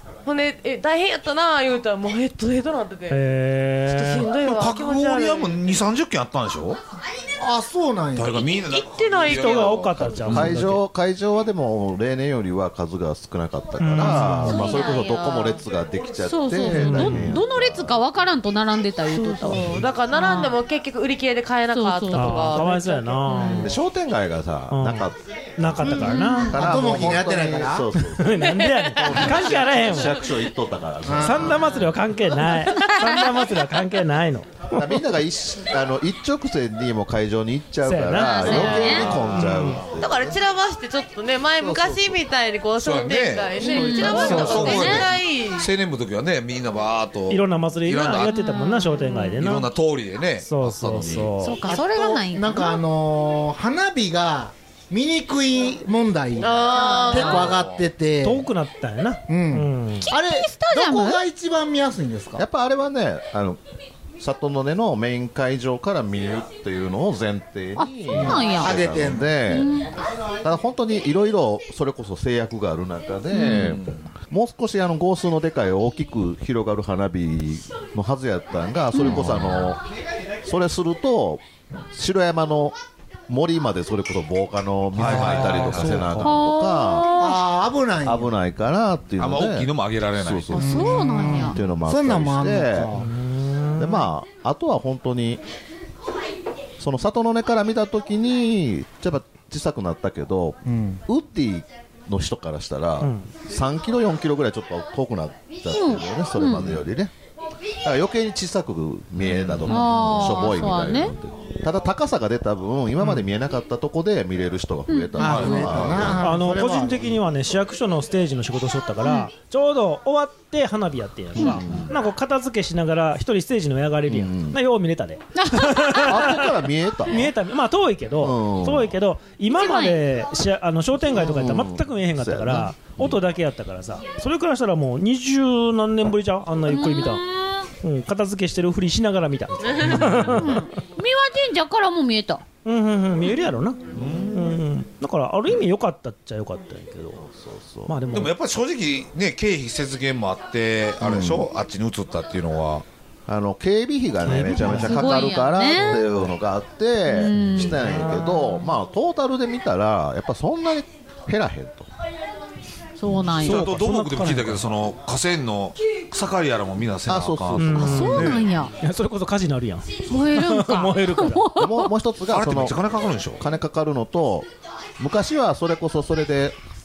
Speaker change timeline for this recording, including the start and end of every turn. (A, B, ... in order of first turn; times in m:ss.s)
0:00.2-0:03.2 A
0:03.1-0:04.3 B
0:03.9-0:05.8 A
0:04.4-0:06.8 C
0:07.4-0:08.6 D
0:08.1-0:10.6 C
0:08.7-0:10.2 A
0:09.3-0:10.8 B
0:10.3-0:18.0 E
0:13.8-0:14.6 B
0:14.4-0:15.6 F
0:16.3-0:20.6 F
0:16.7-0:17.4 B
0:19.1-0:23.6 A
0:19.5-0:19.8 B
0:21.7-0:22.7 F
0:22.1-0:23.7 B
0:23.3-0:23.7 F
0:23.6-0:31.9 E
0:24.7-0:26.6 B
0:25.8-0:26.6 F
0:26.6-0:27.9 D
0:28.2-0:30.2 B
0:28.4-0:29.4 A
0:31.0-0:31.6 D
0:31.2-0:35.0 B
0:32.8-0:33.1 F
0:34.7-0:40.4 E
0:37.8-0:39.8 B
0:38.2-0:39.1 F
0:38.5-0:39.0 A
0:40.0-0:45.7 A
0:41.6-0:42.2 E
0:42.8-0:48.4 C
0:43.6-0:45.1 F
0:47.3-0:49.7 B
0:48.2-0:49.4 F
0:49.4-0:51.3 C
0:50.4-0:51.6 B
0:51.4-0:52.8 F
0:51.6-0:58.4 D
0:56.4-0:57.6 A
0:56.9-0:57.4 F
0:57.3-0:57.9 C
0:58.2-1:00.1 B
0:59.3-1:02.4 D
1:00.1-1:01.2 F
1:02.4-1:03.6 E
1:04.2-1:09.8 E
1:07.8-1:08.7 F
1:08.1-1:09.4 D
1:09.5-1:09.9 F
1:10.4-1:19.8 E
1:13.3-1:13.7 F
1:13.4-1:14.0 C
1:18.9-1:19.4 F
1:20.4-1:22.8 E
1:23.3-1:27.1 E
1:25.0-1:26.1 C
1:25.0-1:26.3 B
1:25.1-1:25.5 D
1:26.2-1:27.4 F
1:27.2-1:28.3 D
1:28.0-1:32.9 E
1:29.2-1:30.6 C
1:30.5-1:31.6 F
1:30.6-1:33.1 D
1:33.0-1:34.1 B
1:33.8-1:35.4 E
1:36.8-1:47.1 E
1:40.6-1:41.0 D
1:43.0-1:43.3 B
1:45.7-1:46.8 F
1:47.8-1:56.2 E
1:49.2-1:49.7 C
1:49.7-1:51.1 F
1:54.9-1:55.5 F
1:55.2-1:57.2 D
1:55.2-1:56.1 C
1:56.2-2:06.5 B
1:59.0-1:59.3 F
2:01.4-2:01.9 E
2:04.1-2:04.6 E
2:05.4-2:06.1 F
2:06.0-2:07.3 E
2:07.1-2:17.2 B
2:08.2-2:09.0 E
2:09.5-2:10.0 F
2:11.1-2:13.2 E
2:16.7-2:17.7 F
2:17.8-2:20.6 B
2:20.1-2:22.4 F
2:22.6-2:23.8 B
2:23.9-2:24.5 E
2:23.9-2:24.3 C
2:24.3-2:27.2 B
2:27.2-2:28.0 E
2:27.9-2:28.3 B
2:28.1-2:32.8 C
2:31.0-2:31.5 E
2:33.3-2:41.9 E
2:34.2-2:35.1 B
2:34.6-2:36.0 F
2:35.9-2:36.3 B
2:37.1-2:38.2 F
2:43.0-2:43.7 F
2:43.2-2:44.7 B
2:43.4-2:48.4 C
2:47.1-2:48.4 E
2:47.6-2:51.5 B
2:47.8-2:48.7 F
2:50.1-2:51.9 F
2:51.6-2:52.8 E
2:52.3-2:53.4 C
2:53.4-2:54.5 E
2:55.0-2:56.6 E